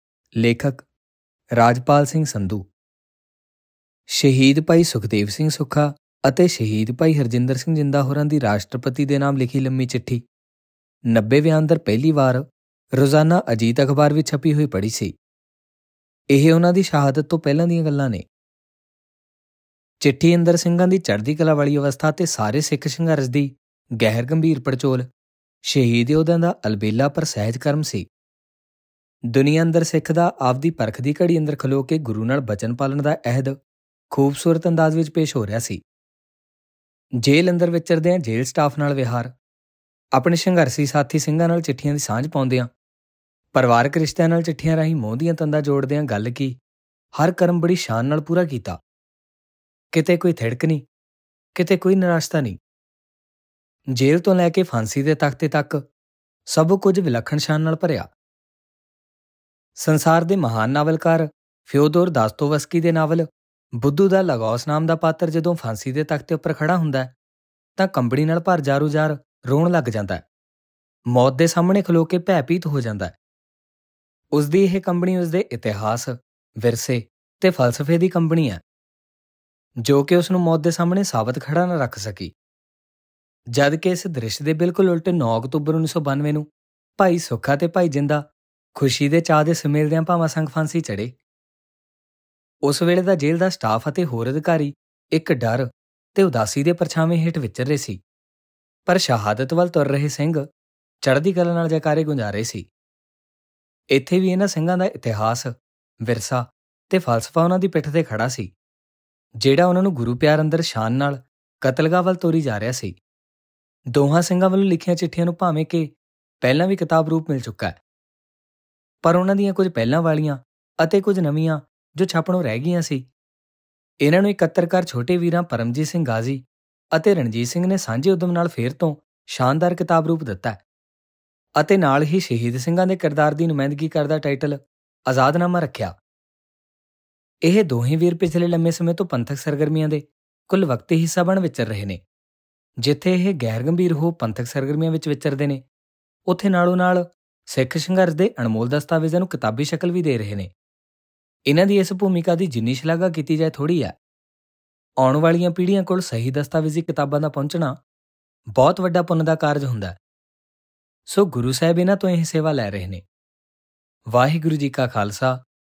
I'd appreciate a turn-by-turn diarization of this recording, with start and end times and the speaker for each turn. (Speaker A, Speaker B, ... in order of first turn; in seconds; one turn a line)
Speaker A: 0.4-0.9
Speaker A: 1.6-2.7
Speaker A: 4.1-10.2
Speaker A: 11.1-12.4
Speaker A: 13.0-15.1
Speaker A: 16.3-18.2
Speaker A: 20.0-25.1
Speaker A: 25.6-28.1
Speaker A: 29.3-33.6
Speaker A: 34.1-35.8
Speaker A: 37.2-39.3
Speaker A: 40.1-42.7
Speaker A: 43.5-46.6
Speaker A: 47.1-48.8
Speaker A: 49.9-50.8
Speaker A: 51.5-52.6
Speaker A: 53.9-55.8
Speaker A: 56.5-58.1
Speaker A: 59.8-63.3
Speaker A: 63.8-67.1
Speaker A: 67.8-70.2
Speaker A: 71.1-73.1
Speaker A: 74.3-78.6
Speaker A: 79.8-82.3
Speaker A: 83.5-86.5
Speaker A: 87.0-88.2
Speaker A: 88.7-91.1
Speaker A: 92.7-98.0
Speaker A: 98.9-100.4
Speaker A: 101.0-102.7
Speaker A: 103.9-105.5
Speaker A: 106.0-108.5
Speaker A: 109.4-113.0
Speaker A: 113.9-117.8
Speaker A: 119.0-123.1
Speaker A: 124.0-130.6
Speaker A: 131.6-135.9
Speaker A: 137.4-142.0
Speaker A: 142.8-145.6
Speaker A: 146.3-150.5
Speaker A: 151.5-153.9
Speaker A: 155.0-157.8
Speaker A: 158.6-159.9
Speaker A: 161.1-163.0
Speaker A: 164.1-165.4